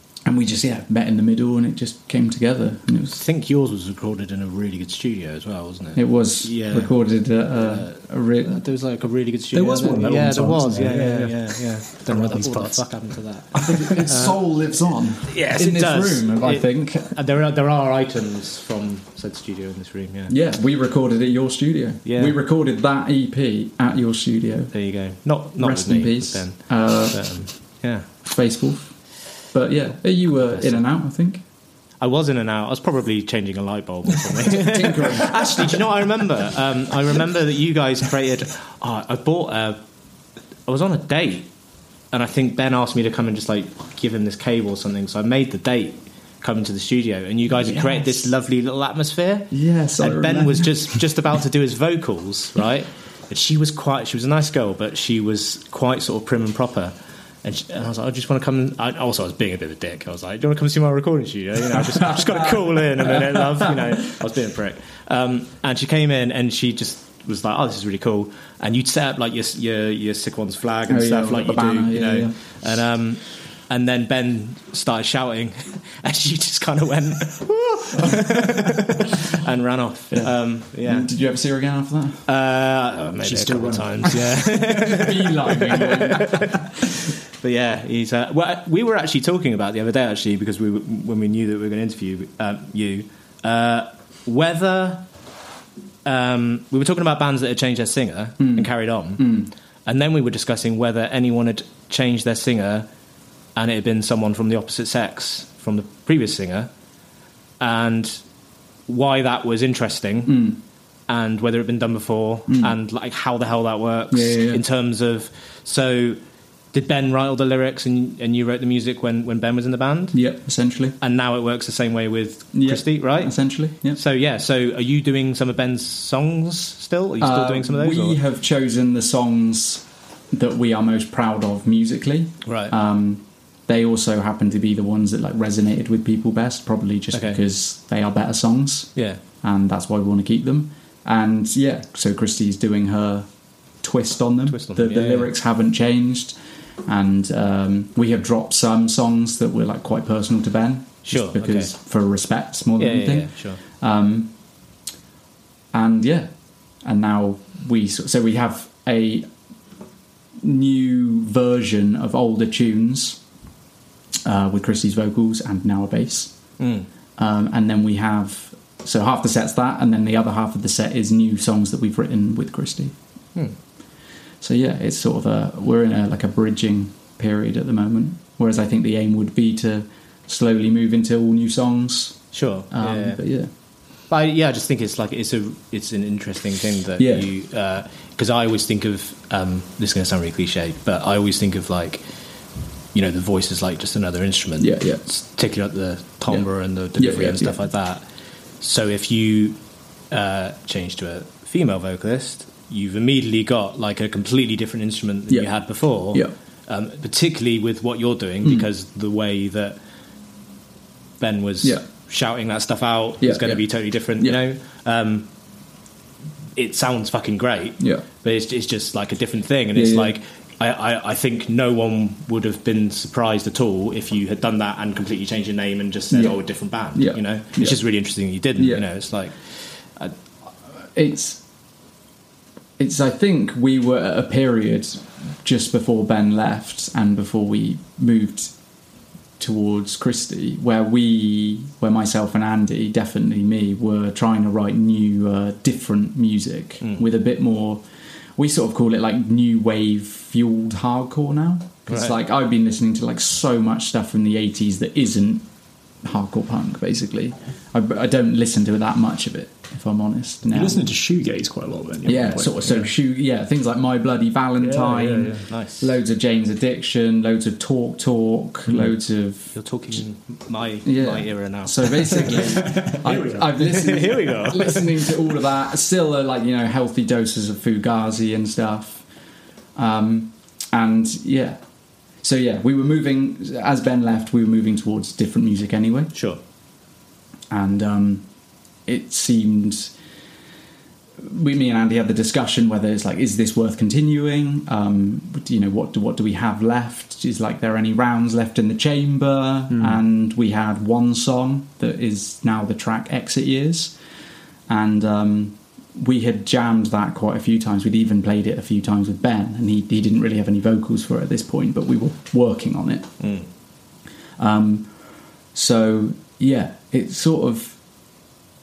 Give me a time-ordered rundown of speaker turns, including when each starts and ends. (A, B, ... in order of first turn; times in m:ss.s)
0:00.3-0:03.2 A
0:03.2-0:06.9 B
0:06.0-0:08.6 A
0:07.5-0:14.4 B
0:09.5-0:12.9 C
0:13.5-0:17.2 A
0:15.3-0:20.3 B
0:20.3-0:24.8 A
0:22.0-0:22.4 B
0:24.7-0:28.1 B
0:25.6-0:27.4 A
0:28.2-0:31.4 A
0:30.5-0:30.8 B
0:32.0-0:39.8 B
0:34.5-0:35.8 A
0:40.7-0:41.5 B
0:42.1-1:21.1 B
0:47.6-0:48.3 A
0:49.5-0:51.0 A
1:02.0-1:03.8 A
1:10.9-1:12.6 A
1:20.1-1:22.2 A
1:22.3-1:26.6 B
1:23.2-1:24.4 C
1:24.7-1:26.8 A
1:27.4-1:35.0 B
1:36.0-1:39.3 B
1:38.4-1:39.5 A
1:39.9-1:42.9 B
1:43.6-1:46.7 B
1:47.6-1:48.2 B
1:48.9-1:50.4 B
1:50.3-1:50.6 A
1:51.1-1:56.2 B
1:52.5-1:52.7 A
1:54.1-1:54.6 A
1:56.7-2:00.2 B
2:00.1-2:01.0 A
2:01.0-2:03.3 B
2:02.5-2:04.0 A
2:04.0-2:08.2 B
2:07.2-2:23.3 A
2:12.4-2:12.7 B
2:17.1-2:17.4 B
2:23.8-2:34.3 A
2:24.5-2:25.3 B
2:31.1-2:31.7 B
2:32.8-2:33.6 B
2:35.7-2:36.3 A
2:36.8-2:39.3 A
2:40.4-2:43.2 A
2:44.2-2:46.3 A
2:46.6-2:46.9 B
2:47.2-2:52.9 A
2:54.4-3:03.5 A
3:02.3-3:03.2 B
3:04.1-3:12.0 B
3:07.0-3:07.3 A
3:12.9-3:18.0 B
3:14.6-3:15.0 A
3:16.3-3:17.6 A
3:18.6-3:19.6 B
3:20.1-3:29.8 B
3:31.2-3:35.3 B
3:33.2-3:33.6 A
3:36.6-3:50.1 B
3:37.8-3:38.0 A
3:39.8-3:40.1 A
3:46.1-3:47.8 A
3:48.6-3:48.8 A
3:51.0-3:51.4 A
3:52.8-3:58.5 A
3:59.4-4:07.8 A
4:08.4-4:15.4 A
4:11.9-4:12.2 B
4:16.0-4:20.8 A
4:20.5-4:22.9 C
4:22.0-4:29.6 A
4:24.6-4:25.4 C
4:25.5-4:25.9 B
4:28.7-4:28.9 C
4:29.6-4:32.4 B
4:30.8-4:39.0 A
4:32.2-4:33.9 C
4:33.6-4:34.8 B
4:39.8-4:41.6 A
4:42.2-4:46.1 A
4:46.1-4:46.4 B
4:47.5-4:48.2 A
4:48.9-4:49.9 A
4:51.2-5:04.0 A
4:59.7-5:00.0 C
5:04.7-5:13.2 A
5:13.2-5:13.5 B
5:14.4-5:14.9 A
5:15.5-5:17.8 A